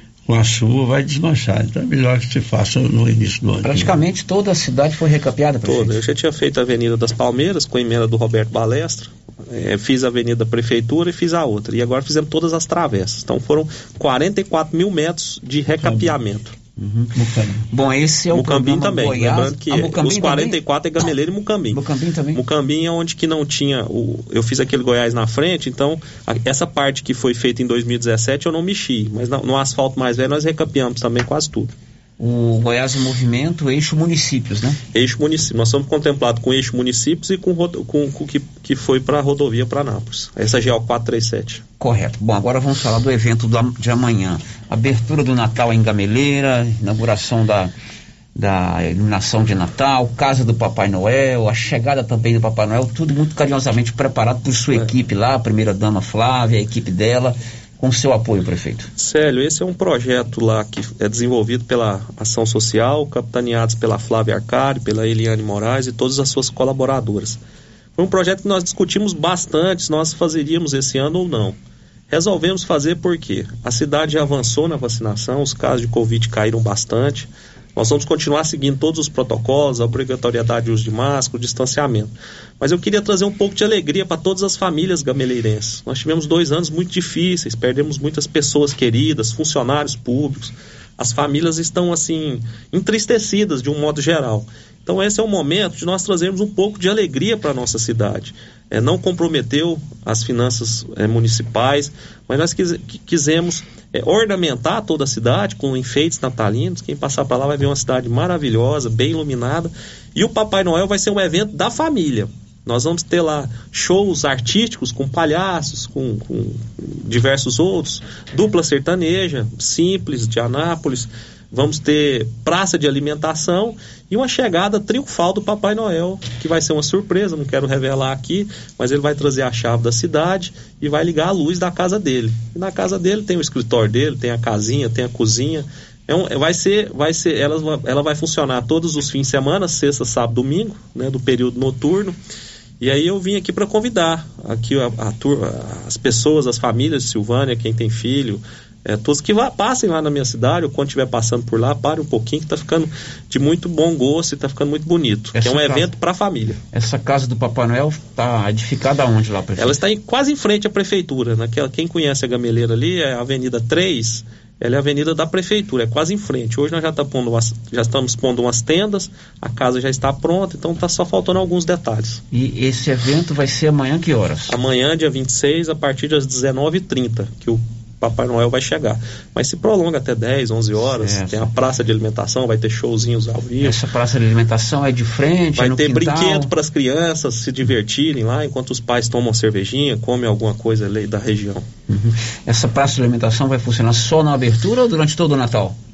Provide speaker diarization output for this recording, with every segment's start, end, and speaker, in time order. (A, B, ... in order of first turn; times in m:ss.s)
0:00.3-0:03.9 A
0:03.6-0:06.0 B
0:05.6-0:16.5 C
0:15.8-0:16.1 B
0:16.8-0:20.6 B
0:17.2-0:17.6 A
0:18.3-0:21.8 C
0:21.7-0:22.4 B
0:22.3-0:31.7 C
0:32.2-0:34.8 B
0:34.9-0:41.6 C
0:41.8-0:47.7 B
0:48.4-0:58.9 B
0:59.0-1:07.4 C
1:08.0-1:11.6 C
1:12.1-2:22.1 C
2:22.8-2:36.6 C
2:35.3-2:35.9 B
2:36.7-2:39.8 B
2:39.6-2:52.2 C
2:52.3-2:54.6 B
2:54.5-3:03.8 C
3:01.0-3:01.5 B
3:03.6-3:06.5 B
3:05.6-3:11.6 C
3:11.9-3:15.8 B